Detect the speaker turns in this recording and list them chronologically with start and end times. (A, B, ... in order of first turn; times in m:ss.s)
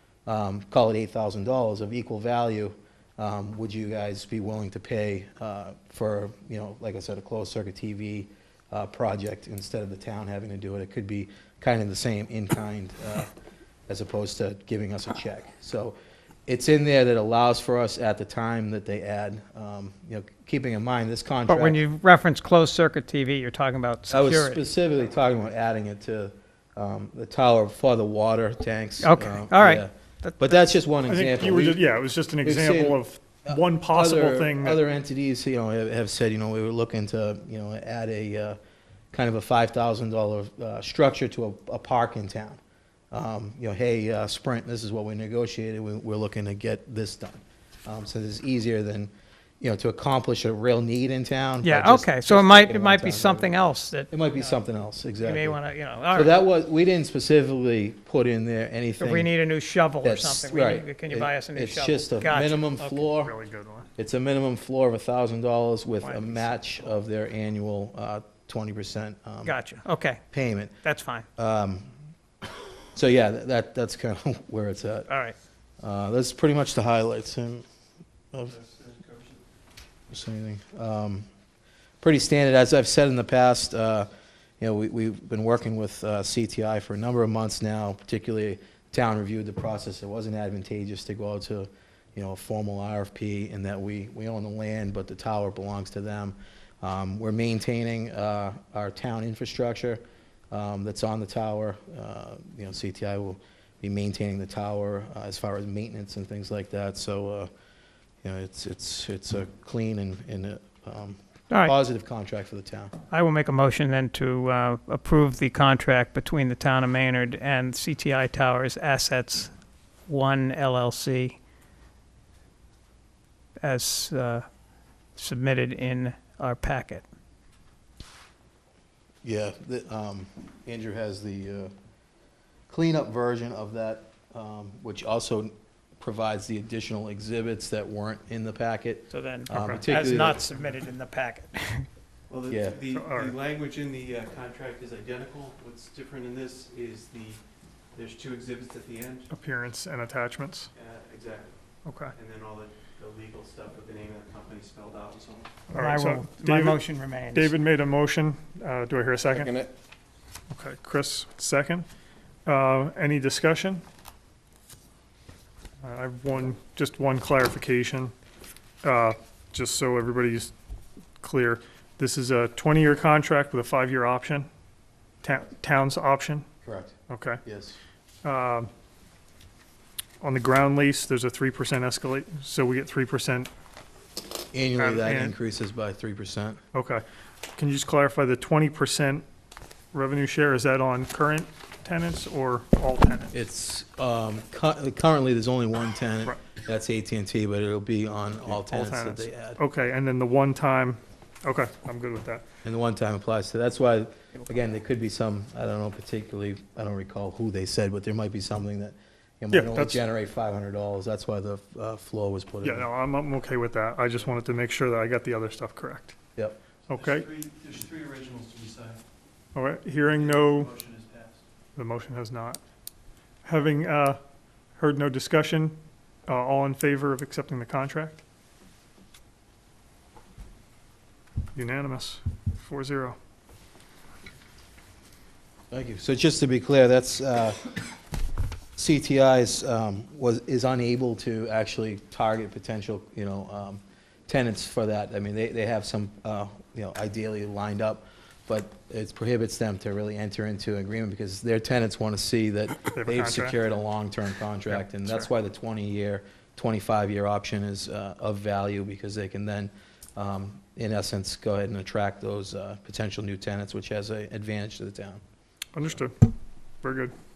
0:00.2-0:13.3 A
0:13.9-0:21.8 A
0:21.5-0:24.6 B
0:24.1-0:31.8 A
0:29.0-0:30.7 B
0:31.1-0:34.8 C
0:32.4-0:38.6 A
0:39.1-0:42.6 A
0:43.1-0:53.5 A
0:51.6-0:54.5 B
0:54.1-0:55.6 A
0:55.2-0:56.3 B
0:56.1-0:59.3 A
0:59.0-1:03.1 B
1:00.0-1:03.3 A
1:03.2-1:03.9 C
1:04.0-1:09.6 A
1:06.0-1:06.4 B
1:09.4-1:11.3 B
1:10.3-1:10.8 A
1:11.4-1:11.9 A
1:12.9-1:15.1 A
1:15.1-1:15.3 B
1:15.8-1:17.7 A
1:18.3-1:18.6 A
1:18.7-1:19.2 D
1:20.1-1:21.3 A
1:22.0-1:24.1 A
1:24.6-1:47.5 A
1:48.2-1:52.9 A
1:53.1-1:59.5 B
2:00.1-2:01.4 B
2:03.6-2:04.4 B
2:05.2-2:07.0 B
2:09.2-2:11.7 A
2:12.7-2:20.4 A
2:19.1-2:21.9 B
2:19.5-2:19.8 C
2:22.3-2:27.4 D
2:22.5-2:22.8 A
2:22.9-2:23.3 C
2:27.9-2:29.3 D
2:29.3-2:30.7 C
2:30.8-2:31.6 D
2:31.8-2:32.1 C
2:32.2-2:35.6 D
2:35.7-2:39.7 C
2:35.7-2:37.5 B
2:40.5-2:41.9 C
2:42.4-2:43.8 C
2:45.8-2:48.1 C
2:48.8-2:50.5 C
2:51.2-2:54.5 C
2:55.2-2:56.4 C
2:56.6-2:57.8 A
2:57.1-2:57.4 C
2:58.2-2:58.7 C
3:00.2-3:03.5 C
3:04.5-3:06.6 A
3:04.8-3:05.4 C
3:06.7-3:07.0 C
3:07.6-3:09.2 C
3:09.9-3:13.4 C
3:13.3-3:19.6 A
3:18.5-3:22.4 C
3:22.6-3:32.9 A
3:29.5-3:30.0 C
3:32.6-3:36.1 C
3:36.9-3:37.3 C
3:36.9-3:39.0 D
3:39.5-3:40.7 C
3:40.2-3:41.4 D
3:41.8-3:42.6 C
3:43.4-3:44.2 C
3:44.8-3:48.2 C
3:51.6-3:53.2 C
3:55.7-3:57.6 A
3:58.8-4:25.2 A
4:12.9-4:13.6 C
4:14.8-4:15.3 C
4:25.8-4:26.1 C
4:26.8-4:27.1 C